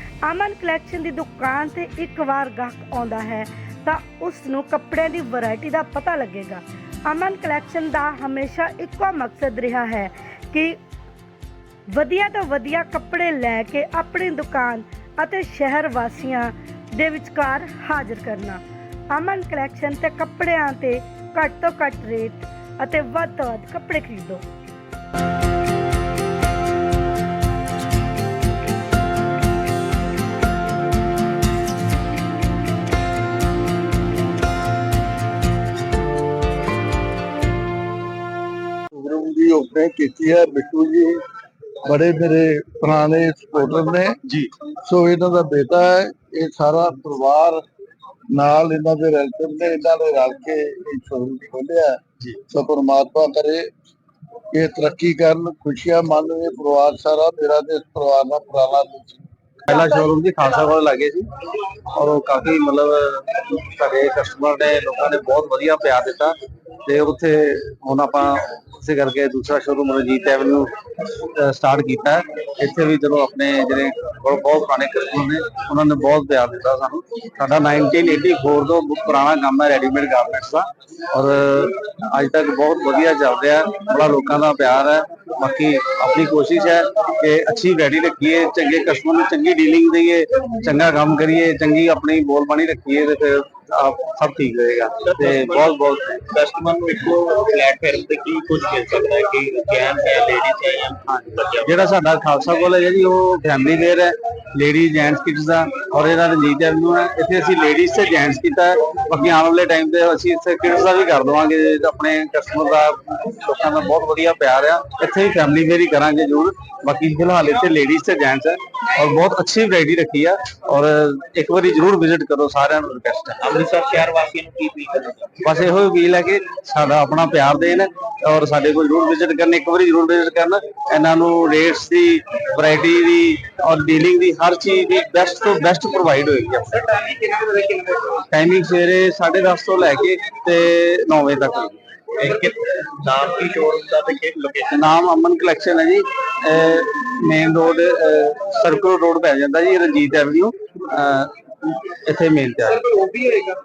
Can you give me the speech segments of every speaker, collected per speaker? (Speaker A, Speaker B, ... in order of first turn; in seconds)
Speaker A: 0.2-10.8, 11.9-24.4
Speaker B: 38.9-41.2, 41.8-47.6, 48.3-53.7, 54.5-59.2
Speaker C: 59.6-61.3, 61.9-96.2, 101.0-123.5, 125.4-137.0, 138.1-141.8, 144.7-153.0
Speaker D: 95.1-101.8, 123.4-125.3, 137.0-138.1, 142.2-144.8, 153.0-153.5